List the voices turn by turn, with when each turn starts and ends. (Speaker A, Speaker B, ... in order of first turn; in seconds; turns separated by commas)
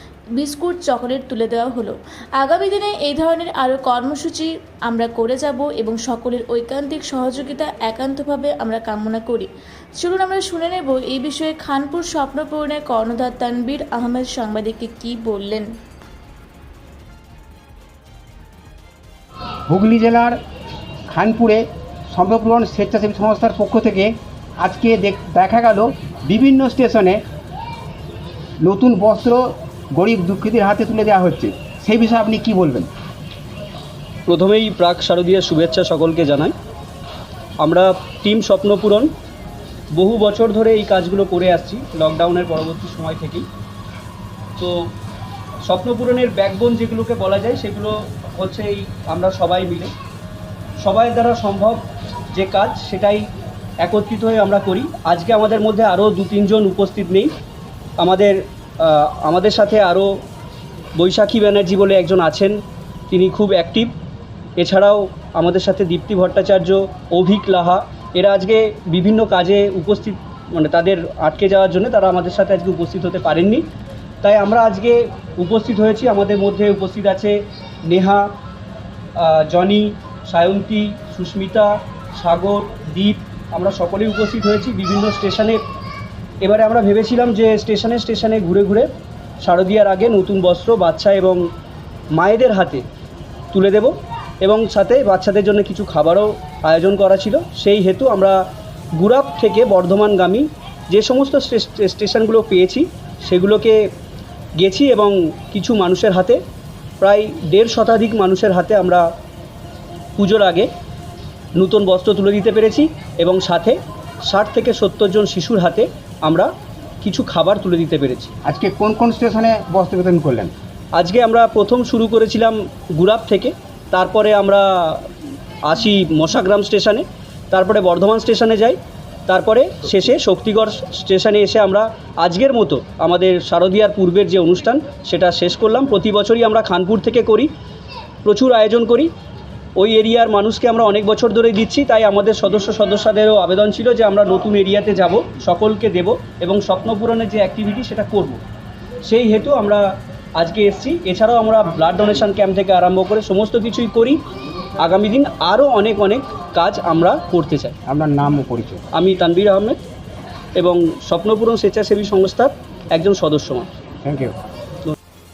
Speaker A: 0.4-15.7, Speaker B: 19.7-20.4, Speaker B: 21.1-27.2, Speaker B: 28.6-32.9, Speaker C: 34.3-36.5, Speaker C: 37.6-39.1, Speaker C: 39.9-43.5, Speaker C: 44.6-44.9, Speaker C: 45.7-49.9, Speaker C: 50.8-53.3, Speaker C: 53.8-57.3, Speaker C: 58.0-60.1, Speaker C: 61.0-62.6, Speaker C: 63.1-63.9, Speaker C: 64.6-73.7, Speaker C: 74.2-78.3, Speaker C: 79.2-85.6, Speaker C: 86.4-88.9, Speaker C: 89.4-91.4, Speaker C: 92.2-92.8, Speaker C: 93.5-98.4, Speaker C: 99.0-103.8, Speaker C: 104.6-106.4, Speaker C: 107.0-109.0, Speaker C: 110.2-110.7, Speaker C: 111.5-116.5, Speaker C: 117.0-118.3, Speaker B: 118.4-120.5, Speaker C: 121.0-125.1, Speaker C: 125.7-137.5, Speaker C: 138.2-139.1, Speaker C: 139.8-148.4, Speaker C: 149.0-149.8, Speaker C: 150.4-154.2, Speaker C: 154.8-157.7, Speaker B: 157.8-158.8, Speaker C: 158.9-159.8, Speaker C: 160.6-163.7, Speaker B: 164.0-164.4